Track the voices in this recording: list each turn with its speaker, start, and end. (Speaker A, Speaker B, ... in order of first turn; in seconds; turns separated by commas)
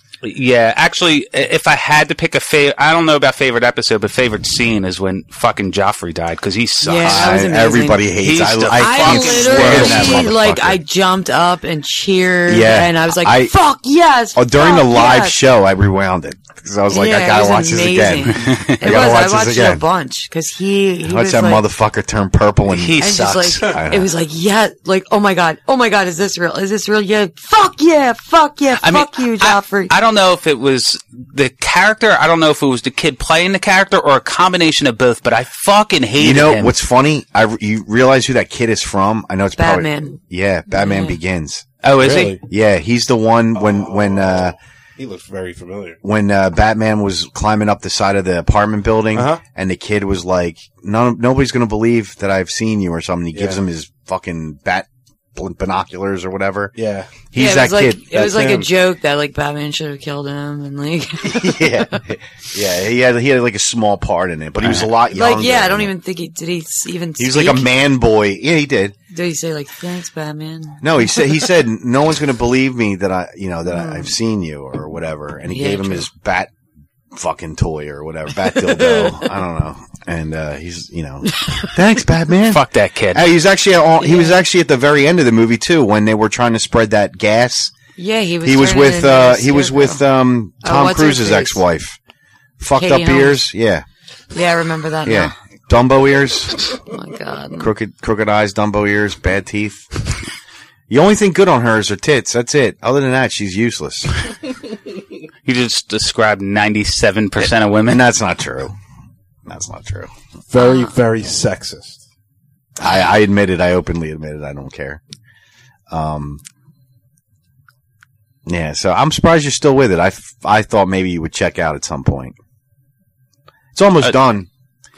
Speaker A: 0.2-7.4, Speaker B: 6.8-8.0, Speaker C: 6.8-10.8, Speaker A: 8.2-10.3, Speaker B: 8.8-15.4, Speaker C: 12.5-13.5, Speaker C: 14.3-19.8, Speaker B: 16.9-21.6, Speaker A: 18.4-18.8, Speaker C: 21.0-23.0, Speaker A: 22.7-23.6, Speaker B: 23.0-29.9, Speaker C: 23.6-24.1, Speaker A: 28.8-36.7, Speaker C: 36.2-41.7, Speaker B: 39.5-40.2, Speaker B: 40.7-41.2, Speaker A: 41.8-42.4, Speaker D: 42.0-42.4, Speaker C: 42.3-44.5, Speaker D: 43.5-46.0, Speaker C: 46.0-56.7, Speaker D: 49.1-49.4, Speaker D: 53.3-53.6, Speaker D: 56.8-57.1, Speaker C: 57.3-58.3, Speaker B: 57.3-62.0, Speaker D: 58.1-58.6, Speaker C: 61.2-65.9, Speaker B: 65.1-67.7, Speaker C: 67.2-69.0, Speaker B: 69.1-71.2, Speaker C: 70.8-76.5, Speaker B: 73.7-74.1, Speaker B: 75.5-76.0, Speaker C: 77.1-87.7, Speaker B: 78.8-79.1, Speaker A: 82.5-83.2, Speaker B: 84.0-84.4, Speaker B: 88.0-90.0, Speaker C: 88.4-92.0, Speaker B: 90.6-91.6, Speaker C: 92.6-93.8, Speaker B: 92.8-93.5, Speaker B: 94.3-95.3, Speaker C: 95.0-96.6, Speaker B: 96.8-97.7, Speaker C: 97.6-99.9, Speaker C: 100.9-104.2, Speaker A: 105.4-108.0, Speaker C: 107.8-108.8, Speaker C: 109.5-110.1, Speaker D: 110.5-112.0, Speaker B: 110.6-110.9, Speaker C: 112.8-115.0, Speaker C: 115.9-116.4, Speaker C: 118.5-122.4, Speaker C: 123.7-124.5